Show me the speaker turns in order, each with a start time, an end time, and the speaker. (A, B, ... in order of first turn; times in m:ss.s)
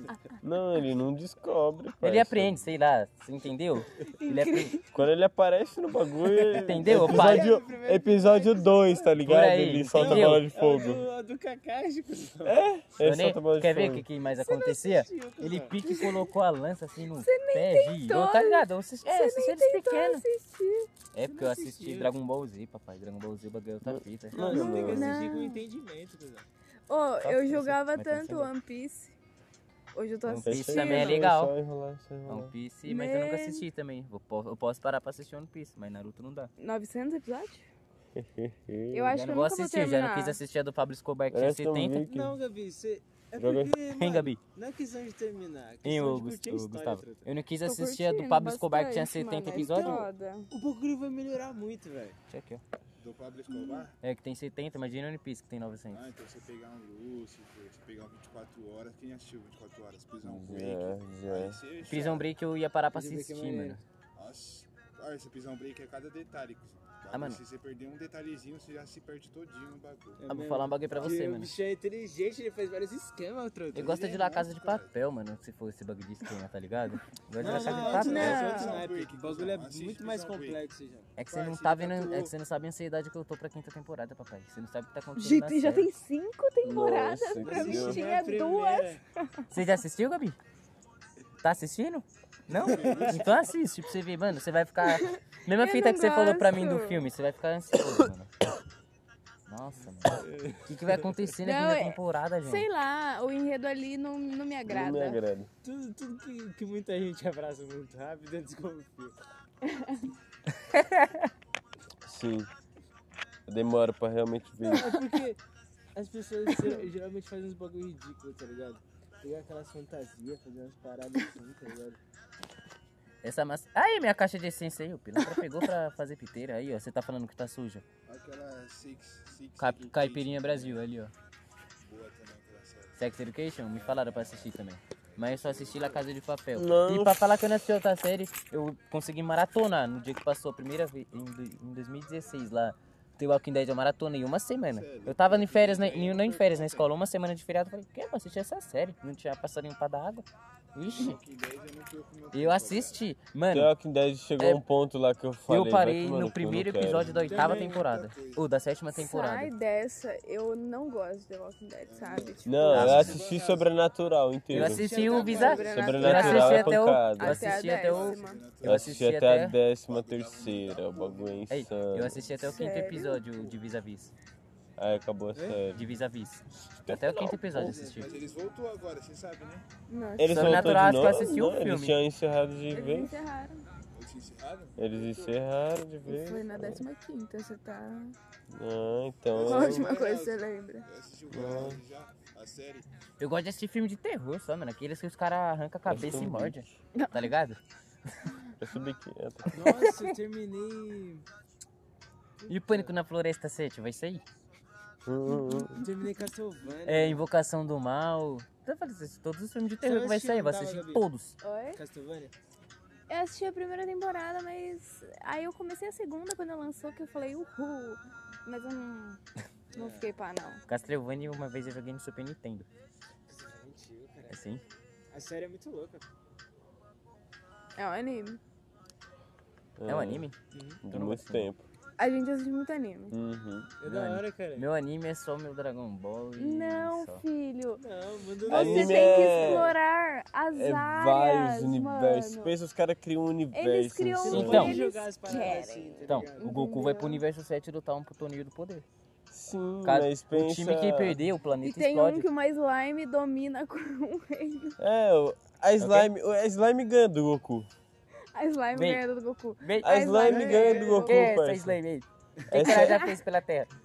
0:00.4-0:02.6 A
0:02.0-0:04.8 B
0:04.2-0:04.8 C
0:04.9-0:11.0 A
0:06.4-0:09.2 D
0:06.5-0:07.5 B
0:09.2-0:10.5 B
0:09.9-0:12.6 D
0:12.4-0:14.0 A
0:13.0-0:20.2 B
0:14.5-0:16.2 D
0:17.1-0:20.9 C
0:21.1-0:24.5 B
0:21.2-0:22.2 D
0:23.9-0:25.0 A
0:24.3-0:26.4 D
0:24.5-0:25.6 C
0:26.9-0:29.1 C
0:27.2-0:28.5 B
0:29.9-0:31.2 C
0:30.3-0:31.5 B
0:30.4-0:32.5 A
0:32.2-0:36.5 B
0:32.8-0:33.6 C
0:36.6-0:37.7 C
0:38.2-0:39.1 A
0:38.9-0:40.4 C
0:39.1-0:42.0 B
0:41.3-0:42.3 A
0:42.0-0:47.3 D
0:43.4-0:43.7 A
0:43.9-0:44.4 B
0:45.8-0:50.1 B
0:47.6-0:50.5 C
0:49.5-0:52.2 D
0:52.3-0:52.6 B
0:53.0-0:53.9 E
0:53.5-0:53.8 C
0:54.0-0:56.0 B
0:55.9-1:02.3 E
1:00.2-1:01.6 A
1:01.8-1:03.8 B
1:02.9-1:03.8 D
1:04.2-1:10.2 E
1:07.1-1:07.4 B
1:10.2-1:13.9 D
1:10.3-1:11.5 B
1:13.7-1:18.3 B
1:13.8-1:14.9 E
1:17.4-1:21.1 D
1:17.6-1:20.6 E
1:17.9-1:18.8 C
1:21.2-1:25.9 B
1:21.3-1:22.3 E
1:25.2-1:29.0 C
1:26.6-1:28.0 A
1:27.4-1:29.0 D
1:29.5-1:30.4 B
1:31.4-1:38.3 B
1:32.5-1:33.5 D
1:34.8-1:37.1 C
1:39.5-1:42.7 B
1:40.2-1:41.1 D
1:41.4-1:45.2 C
1:44.7-1:45.5 A
1:45.6-1:49.1 D
1:49.7-1:50.0 C
1:52.0-1:52.5 A
1:53.5-1:54.9 A
1:54.6-1:55.4 D
1:55.9-2:02.0 D
2:03.2-2:07.8 B
2:08.0-2:10.8 E
2:09.6-2:11.1 B
2:11.8-2:13.0 E
2:13.0-2:31.2 B
2:13.6-2:14.5 E
2:15.1-2:16.1 E
2:16.5-2:17.2 A
2:24.6-2:26.9 E
2:30.8-2:33.0 E
2:32.3-2:33.7 B
2:33.5-2:37.1 A
2:34.4-2:34.6 B
2:35.4-2:39.5 B
2:36.9-2:38.5 E
2:37.2-2:37.9 D
2:38.9-2:43.0 C
2:41.8-2:43.7 E
2:42.4-2:44.8 A
2:42.7-2:43.2 B
2:44.5-2:49.6 B
2:44.5-2:46.0 D
2:44.9-2:48.5 C
2:45.1-2:45.9 E
2:45.7-2:47.5 A
2:47.6-2:49.2 E
2:48.6-2:52.2 A
2:49.9-2:51.6 E
2:51.5-2:54.1 B
2:52.2-2:52.6 E
2:52.4-2:53.2 C
2:54.8-2:55.9 A
2:55.3-2:55.6 D
2:55.7-2:58.1 B
2:56.9-2:57.6 A
2:57.5-2:58.3 D
2:58.0-2:59.6 E
2:59.9-3:01.6 C
3:00.2-3:03.1 A
3:00.3-3:02.0 B
3:02.7-3:03.6 C
3:03.9-3:05.0 E
3:04.8-3:06.8 A
3:05.0-3:05.3 D
3:06.0-3:08.1 C
3:08.5-3:09.9 A
3:09.3-3:12.9 E
3:09.4-3:10.8 C
3:11.3-3:11.8 A
3:13.2-3:18.1 B
3:15.9-3:16.6 A
3:16.9-3:17.3 C
3:18.6-3:19.5 A
3:19.5-3:21.2 D
3:22.4-3:23.0 D
3:22.5-3:24.2 B
3:25.0-3:25.7 A
3:25.3-3:25.7 C
3:25.8-3:27.2 D
3:26.8-3:31.4 B
3:29.8-3:31.1 D
3:31.4-3:31.8 C
3:31.8-3:32.3 D
3:33.1-3:39.2 C
3:39.7-3:40.1 D
3:39.8-3:40.6 C
3:40.7-3:42.7 B
3:43.3-3:44.4 D
3:44.3-3:44.6 B
3:45.1-3:46.0 D
3:47.8-3:48.4 C
3:49.8-3:50.2 A
3:49.8-3:50.4 B
3:50.5-3:50.8 D
3:50.9-3:51.5 B
3:50.9-3:51.6 A
3:52.0-3:53.1 C
3:53.1-3:53.7 A
3:53.8-3:54.7 D
3:53.8-3:57.2 B
3:56.4-3:57.8 C
3:57.8-3:59.7 D
3:58.4-4:02.5 C
3:58.5-3:59.6 A
4:00.5-4:04.7 A
4:03.5-4:07.2 C
4:04.2-4:06.5 D
4:04.3-4:04.8 B
4:06.1-4:08.8 B
4:09.3-4:11.2 A
4:09.8-4:12.3 B
4:11.6-4:14.8 C
4:14.8-4:17.7 A
4:15.8-4:16.1 B
4:18.3-4:21.3 C
4:18.7-4:19.0 B
4:19.6-4:20.1 B
4:19.8-4:21.8 A
4:20.2-4:21.1 D
4:21.0-4:23.7 B
4:22.5-4:23.0 A
4:22.6-4:23.2 C